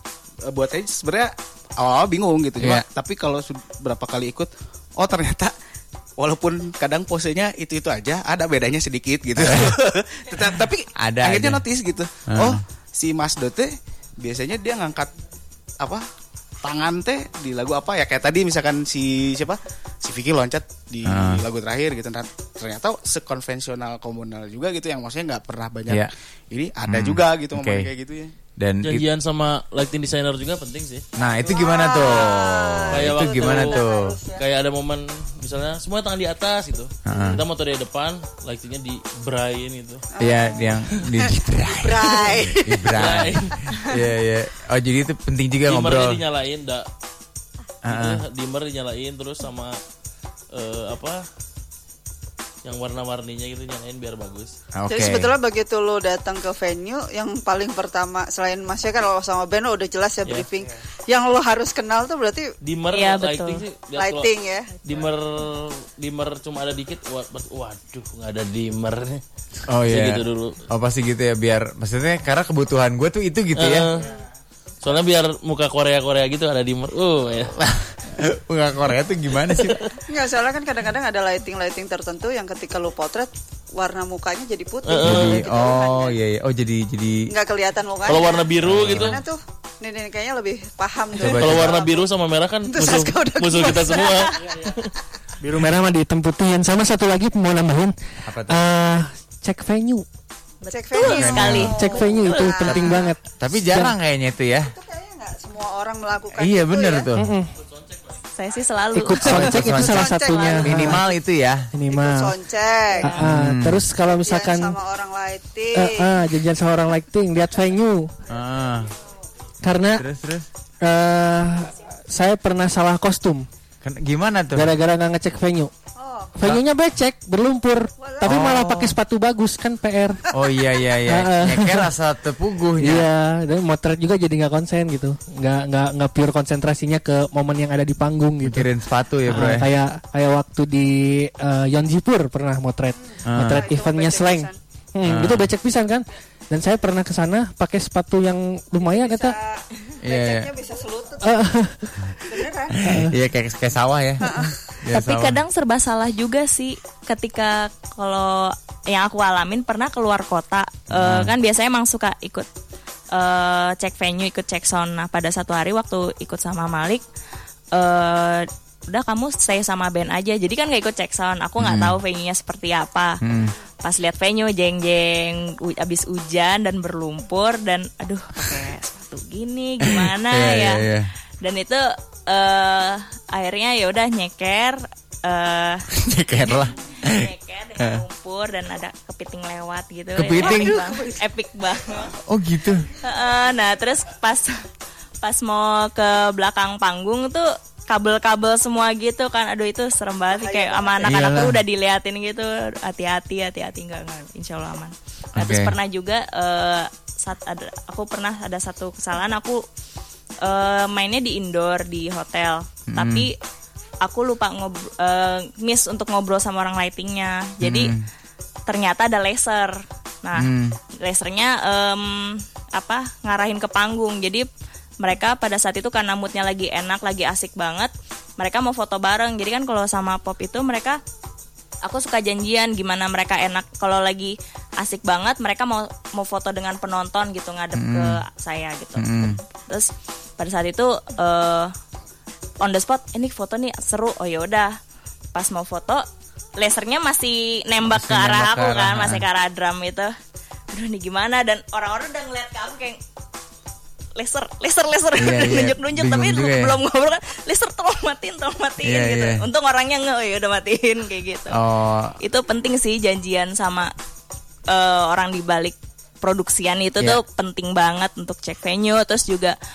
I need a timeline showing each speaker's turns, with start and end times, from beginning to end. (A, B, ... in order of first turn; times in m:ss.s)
0:00.4-0:05.5 A
0:02.6-0:02.8 B
0:06.2-0:15.1 A
0:09.4-0:09.8 B
0:11.0-0:11.6 B
0:12.3-0:12.6 B
0:15.8-0:16.1 A
0:16.6-0:28.3 A
0:21.0-0:21.4 B
0:26.9-0:27.9 B
0:28.6-0:29.0 B
0:28.8-0:31.1 C
0:31.2-0:34.2 B
0:31.4-0:34.4 D
0:32.9-0:40.0 C
0:37.0-0:37.4 B
0:37.1-0:37.4 D
0:40.1-0:43.8 D
0:40.2-0:46.2 B
0:42.9-0:43.6 C
0:45.7-0:46.9 C
0:47.8-0:48.2 B
0:47.9-0:49.8 C
0:50.5-0:51.3 C
0:52.6-0:54.5 C
0:54.7-0:55.3 B
0:54.9-1:02.5 D
1:02.6-1:04.3 C
1:02.9-1:03.6 E
1:04.0-1:04.7 D
1:04.8-1:09.2 C
1:09.7-1:13.9 B
1:09.9-1:10.6 C
1:13.6-1:14.2 C
1:14.8-1:17.6 C
1:17.6-1:19.8 B
1:19.6-1:19.9 C
1:20.1-1:26.2 D
1:24.8-1:25.4 C
1:25.0-1:27.3 B
1:27.3-1:32.1 D
1:28.1-1:29.2 C
1:28.6-1:29.2 B
1:31.2-1:31.8 B
1:31.3-1:34.9 C
1:32.7-1:34.7 D
1:35.4-1:40.1 F
1:38.3-1:38.7 B
1:40.6-1:42.5 E
1:40.7-1:43.1 D
1:41.0-1:41.8 B
1:41.6-1:43.9 F
1:42.7-1:44.7 B
1:44.6-1:47.1 D
1:46.4-1:47.3 B
1:47.2-1:47.5 F
1:48.4-1:49.5 E
1:48.9-1:51.0 F
1:49.2-1:51.7 B
1:49.3-1:51.0 D
1:51.7-1:52.3 F
1:51.9-1:53.2 D
1:53.0-1:54.8 F
1:53.1-1:53.9 B
1:54.1-1:56.1 D
1:55.8-1:58.1 F
1:58.3-1:58.9 B
1:59.6-2:00.0 F
2:00.0-2:00.5 B
2:00.8-2:03.5 F
2:03.8-2:04.8 B
2:04.6-2:05.7 F
2:06.0-2:06.5 D
2:06.4-2:10.2 F
2:08.0-2:08.5 D
2:08.2-2:09.0 B
2:10.3-2:13.1 B
2:11.1-2:11.9 F
2:12.8-2:18.7 F
2:18.4-2:19.7 B
2:19.3-2:29.4 F
2:23.3-2:23.7 B
2:23.3-2:24.6 D
2:25.0-2:25.5 B
2:28.8-2:31.4 D
2:30.0-2:30.5 B
2:31.2-2:32.0 F
2:32.3-2:32.9 D
2:32.8-2:35.4 B
2:32.8-2:33.1 F
2:34.2-2:34.6 D
2:34.9-2:42.5 E
2:40.9-2:41.3 B
2:43.1-2:47.0 E
2:47.7-2:53.2 E
2:51.6-2:52.0 B
2:53.2-2:53.5 B
2:53.8-3:00.9 E
2:59.8-3:01.1 B
3:01.4-3:05.8 E
3:05.9-3:08.0 B
3:06.5-3:12.1 E
3:10.2-3:10.8 B
3:10.4-3:11.2 D
3:12.2-3:12.9 B
3:13.0-3:14.6 E
3:15.2-3:29.6 E
3:20.3-3:21.3 D
3:21.0-3:21.6 B
3:25.4-3:25.7 B
3:30.4-3:33.4 E
3:32.9-3:33.3 B
3:34.0-3:37.9 E
3:37.6-3:38.0 B
3:38.7-3:44.5 E
3:40.4-3:40.8 B
3:45.0-3:51.0 E
3:51.8-4:01.7 E
3:57.8-3:58.2 B
3:59.0-3:59.4 B
4:02.6-4:04.8 E
4:05.3-4:06.1 E
4:06.6-4:10.2 E
4:07.9-4:09.2 B
4:10.7-4:13.0 E
4:14.2-4:21.6 E
4:15.2-4:16.8 B
4:18.8-4:19.4 B
4:21.5-4:22.2 B
4:22.2-4:23.9 E
4:24.7-4:29.6 E